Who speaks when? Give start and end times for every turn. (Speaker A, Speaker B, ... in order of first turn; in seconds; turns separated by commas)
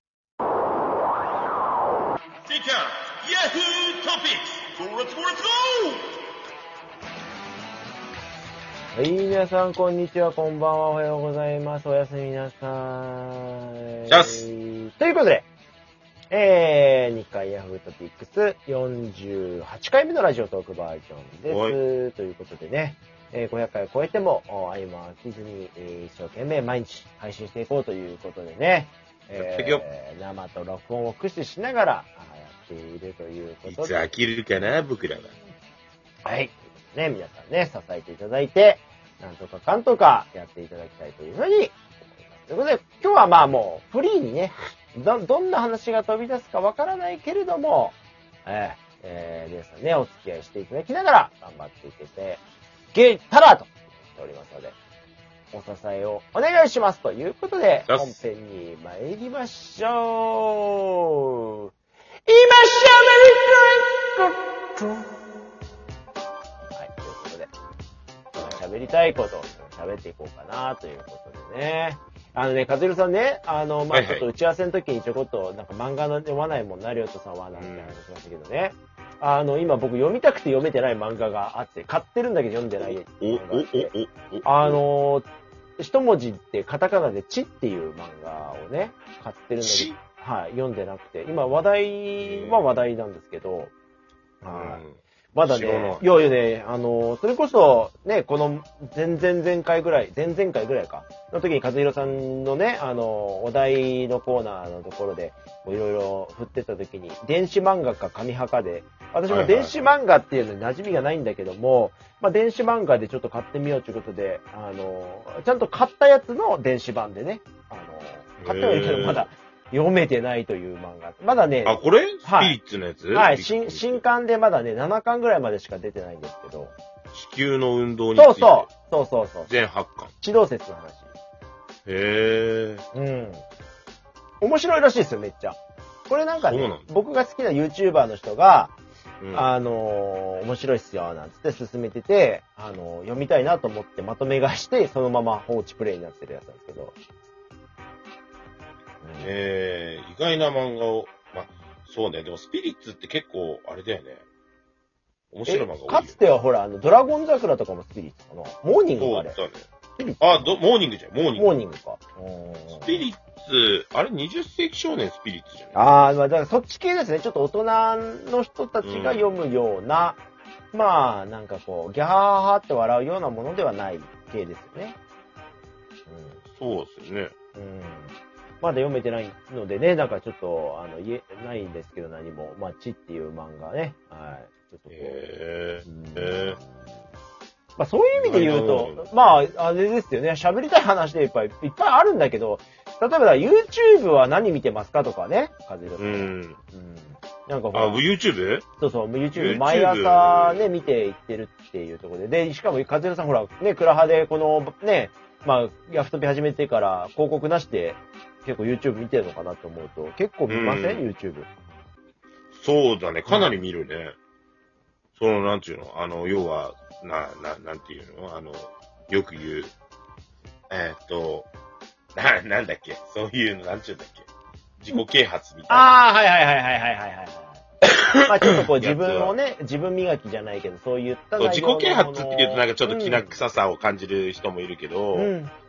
Speaker A: 2.4-6.1, Speaker B: 8.9-15.5, Speaker A: 14.1-14.4, Speaker B: 16.3-34.0, Speaker A: 21.5-21.8, Speaker A: 29.4-29.8, Speaker A: 33.7-35.3, Speaker B: 36.2-52.4, Speaker B: 52.9-54.8, Speaker B: 55.5-61.7, Speaker A: 57.9-58.2, Speaker B: 62.3-65.0, Speaker B: 66.7-67.5, Speaker B: 68.4-83.9, Speaker A: 73.9-74.2, Speaker A: 77.5-78.0, Speaker A: 82.8-84.8, Speaker B: 84.4-85.3, Speaker B: 85.8-93.7, Speaker A: 89.6-90.0, Speaker A: 92.2-92.7, Speaker B: 94.4-94.8, Speaker A: 94.5-96.0, Speaker B: 95.3-122.6, Speaker A: 109.3-109.7, Speaker A: 118.4-119.3, Speaker A: 121.7-124.0, Speaker B: 123.1-126.7, Speaker A: 127.1-128.7, Speaker B: 128.2-129.5, Speaker A: 129.5-130.1, Speaker B: 130.2-131.1, Speaker A: 131.9-132.8, Speaker B: 132.9-133.4, Speaker B: 134.4-138.7, Speaker A: 136.4-136.9, Speaker A: 139.2-139.5, Speaker B: 139.3-146.9, Speaker B: 149.0-149.3, Speaker A: 149.2-154.2, Speaker A: 155.3-156.2, Speaker B: 155.5-159.4, Speaker A: 159.0-159.6, Speaker B: 160.0-160.6, Speaker A: 160.2-161.6, Speaker B: 161.4-163.1, Speaker A: 162.7-165.8, Speaker B: 165.7-170.2, Speaker A: 168.8-169.4, Speaker B: 170.7-175.0, Speaker B: 176.1-176.4, Speaker A: 176.6-177.3, Speaker B: 177.6-185.2, Speaker A: 184.9-186.6, Speaker B: 185.8-187.0, Speaker B: 187.8-198.0, Speaker A: 188.2-189.1, Speaker A: 196.0-196.6, Speaker A: 197.7-198.7, Speaker B: 198.8-211.5, Speaker A: 199.3-200.7, Speaker A: 210.5-211.1, Speaker A: 212.6-214.2, Speaker B: 213.3-213.5, Speaker A: 215.2-219.7, Speaker A: 220.7-221.5, Speaker A: 222.2-224.3, Speaker A: 224.8-225.9, Speaker B: 225.7-227.6, Speaker A: 227.9-229.3, Speaker B: 228.2-233.4, Speaker A: 231.4-235.3, Speaker B: 235.1-235.5